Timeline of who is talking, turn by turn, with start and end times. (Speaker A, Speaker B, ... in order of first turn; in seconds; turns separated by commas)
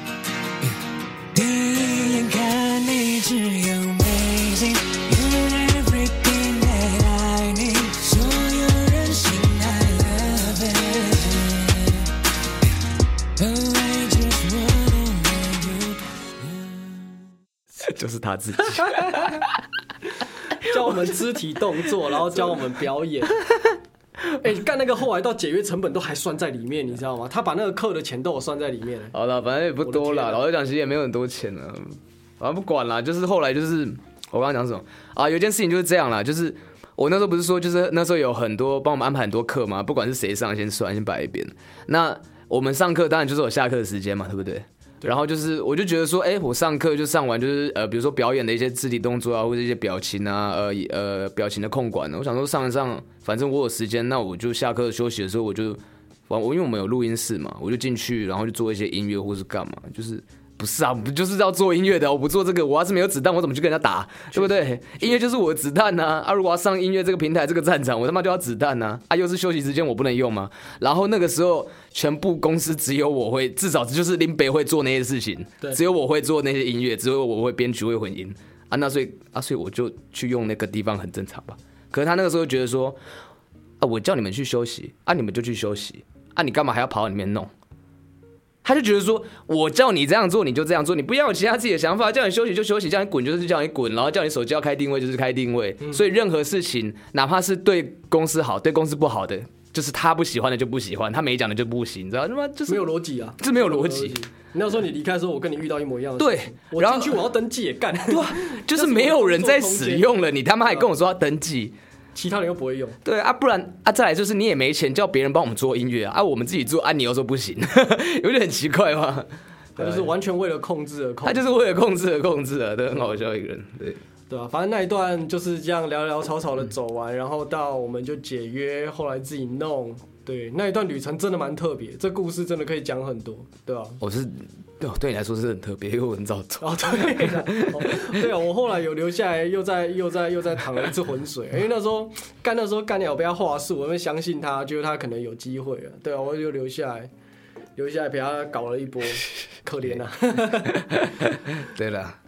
Speaker A: 1.3-12.1, Speaker A: 13.4-17.0, Speaker B: 17.8-19.6, Speaker C: 20.6-23.4, Speaker C: 24.4-29.1, Speaker B: 29.1-83.0, Speaker C: 29.8-30.4, Speaker C: 64.3-65.1, Speaker B: 83.8-87.5, Speaker B: 88.6-102.9, Speaker C: 102.7-110.1, Speaker B: 103.4-104.2, Speaker B: 106.2-107.2, Speaker B: 108.1-111.7, Speaker C: 112.1-113.0, Speaker B: 113.0-120.1, Speaker C: 119.8-121.4, Speaker B: 121.2-124.0, Speaker C: 124.3-134.0, Speaker B: 134.0-138.2, Speaker C: 136.6-147.1, Speaker C: 147.8-150.8, Speaker B: 150.9-152.2